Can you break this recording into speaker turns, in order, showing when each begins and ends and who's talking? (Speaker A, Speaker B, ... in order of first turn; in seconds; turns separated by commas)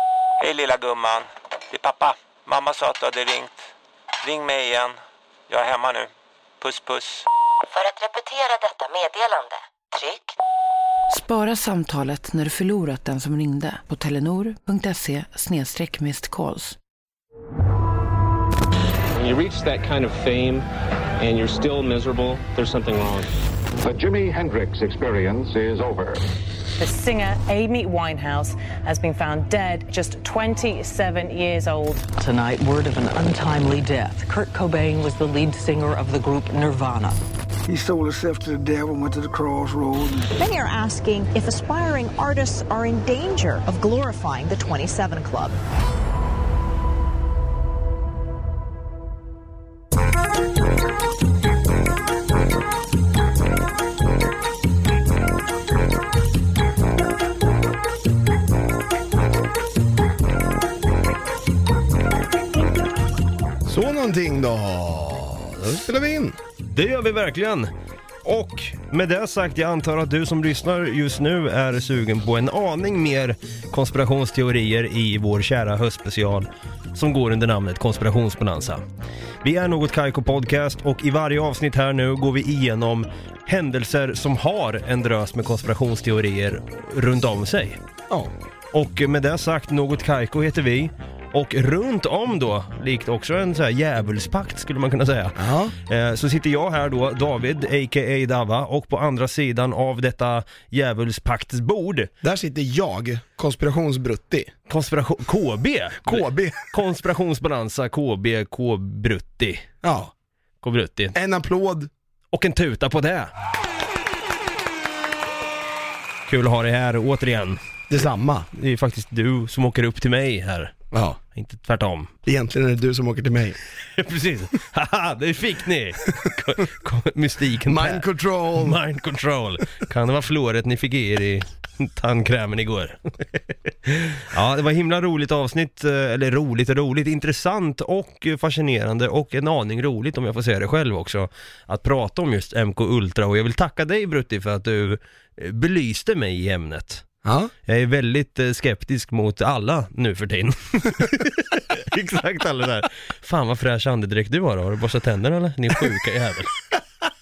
Speaker A: 0.4-3.7, Speaker A: 4.2-7.3, Speaker B: 7.7-10.4, Speaker C: 11.1-16.8, Speaker D: 19.1-20.7, Speaker D: 21.2-23.3, Speaker E: 23.8-26.2, Speaker F: 26.8-32.1, Speaker G: 32.2-37.2, Speaker H: 37.7-40.3, Speaker I: 40.4-45.5, Speaker J: 63.7-66.4, Speaker K: 66.7-67.7, Speaker K: 68.2-78.8, Speaker K: 79.4-87.8, Speaker K: 88.7-102.1, Speaker J: 95.4-95.7, Speaker J: 102.2-104.5, Speaker K: 104.7-109.7, Speaker J: 106.0-106.7, Speaker J: 109.8-110.1, Speaker K: 110.6-111.1, Speaker J: 111.1-111.9, Speaker K: 112.3-113.3, Speaker K: 116.3-117.6, Speaker J: 117.9-118.5, Speaker K: 118.5-120.8, Speaker J: 120.9-121.2, Speaker K: 121.3-122.1, Speaker J: 122.2-123.6, Speaker K: 123.9-128.0, Speaker J: 127.7-128.8, Speaker K: 128.6-133.0, Speaker K: 133.8-147.1, Speaker J: 147.2-147.5, Speaker K: 147.7-156.6